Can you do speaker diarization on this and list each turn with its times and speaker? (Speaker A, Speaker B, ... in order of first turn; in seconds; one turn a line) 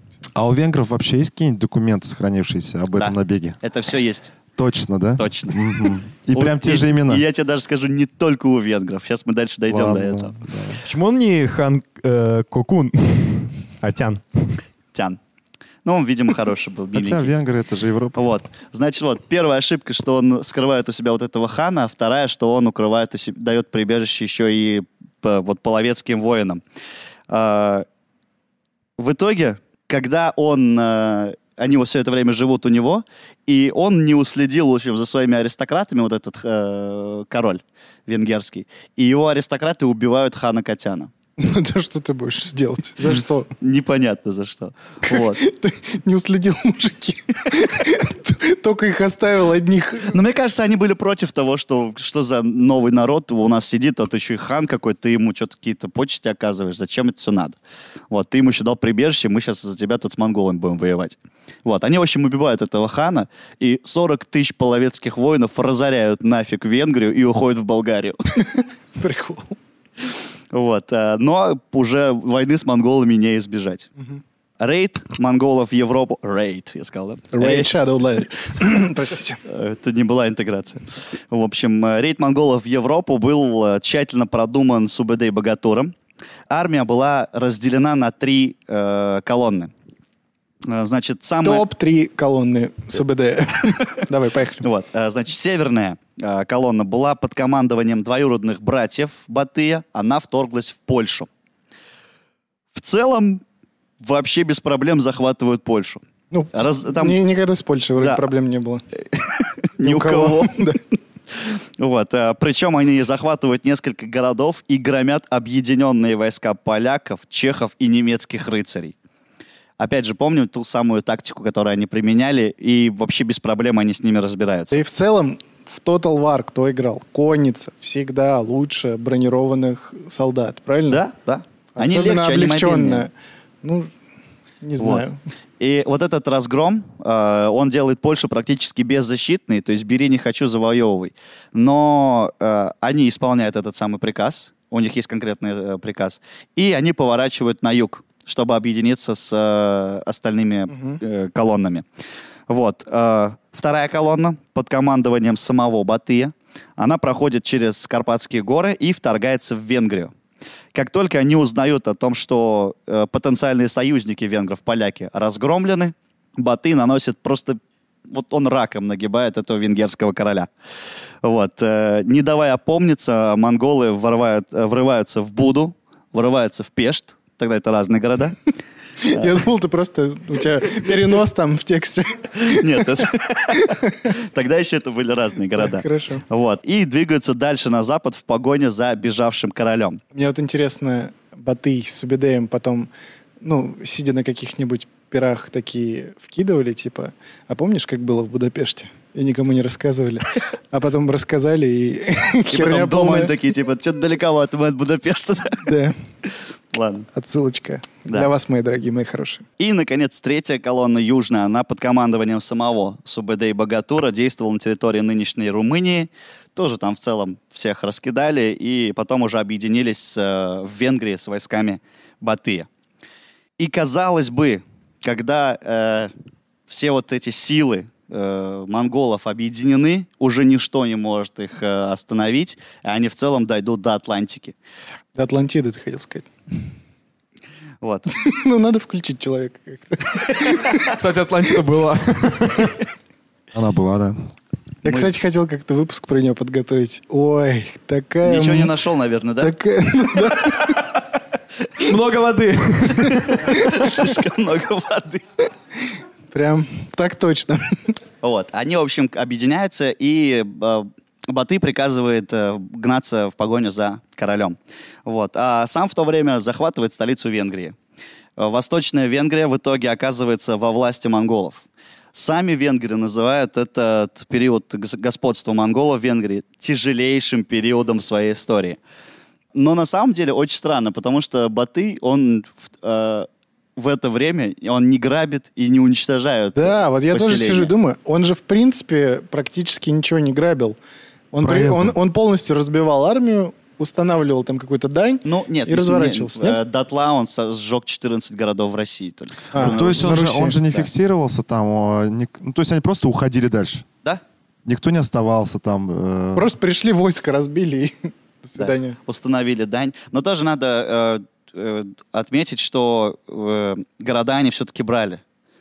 Speaker A: 0.3-3.6
Speaker B: 2.9-4.3
Speaker A: 4.5-7.2
Speaker B: 5.2-10.4
Speaker A: 9.7-10.8
Speaker C: 10.8-14.6
Speaker B: 15.8-17.3
Speaker A: 16.9-18.2
Speaker B: 18.1-26.6
Speaker B: 27.3-27.9
Speaker B: 29.0-41.1
Speaker D: 41.4-43.5
Speaker B: 43.6-45.4
Speaker D: 45.1-50.2
Speaker B: 50.1-57.6
Speaker B: 58.1-68.2
Speaker D: 68.5-69.5
Speaker B: 70.5-73.9
Speaker B: 74.6-77.7
Speaker D: 77.3-79.4
Speaker B: 79.4-85.9
Speaker B: 86.5-89.7
Speaker B: 90.7-91.6
Speaker D: 91.4-94.7
Speaker B: 94.6-101.3
Speaker B: 102.7-103.4
Speaker B: 104.0-106.0
Speaker D: 106.3-108.8
Speaker B: 106.5-107.2
Speaker B: 108.0-108.2
Speaker B: 109.1-110.7
Speaker D: 109.8-110.8
Speaker B: 111.3-118.9
Speaker B: 119.8-124.8
Speaker D: 124.7-131.0
Speaker B: 130.9-133.1
Speaker D: 131.8-133.1
Speaker D: 133.6-133.9
Speaker D: 134.6-135.2
Speaker B: 134.8-135.1
Speaker B: 135.6-151.8
Speaker D: 150.7-151.0
Speaker B: 152.5-160.1
Speaker B: 160.7-170.5
Speaker B: 171.2-178.3
Speaker D: 179.0-182.8
Speaker B: 182.3-190.0
Speaker D: 185.6-186.2
Speaker D: 190.1-192.9
Speaker D: 193.4-203.3
Speaker B: 202.5-205.7
Speaker D: 205.6-205.9
Speaker B: 206.7-207.1
Speaker D: 207.1-209.4
Speaker B: 209.6-222.7
Speaker B: 223.6-226.1
Speaker B: 226.7-234.6
Speaker D: 235.1-236.3
Speaker B: 237.8-238.1
Speaker D: 238.1-240.9
Speaker C: 240.8-242.8
Speaker A: 243.5-244.2
Speaker D: 244.8-248.7
Speaker B: 244.8-245.1
Speaker B: 248.2-249.5
Speaker D: 249.4-250.8
Speaker C: 251.8-253.5
Speaker B: 253.0-255.2
Speaker D: 253.4-254.1
Speaker D: 256.3-257.9
Speaker B: 258.2-267.8
Speaker B: 268.4-278.8
Speaker B: 279.5-287.7
Speaker D: 286.5-290.8
Speaker D: 291.3-296.6
Speaker A: 291.4-291.9
Speaker B: 295.2-300.9
Speaker D: 299.5-300.6
Speaker A: 299.6-303.9
Speaker A: 304.6-306.5
Speaker D: 306.3-309.0
Speaker B: 308.6-315.2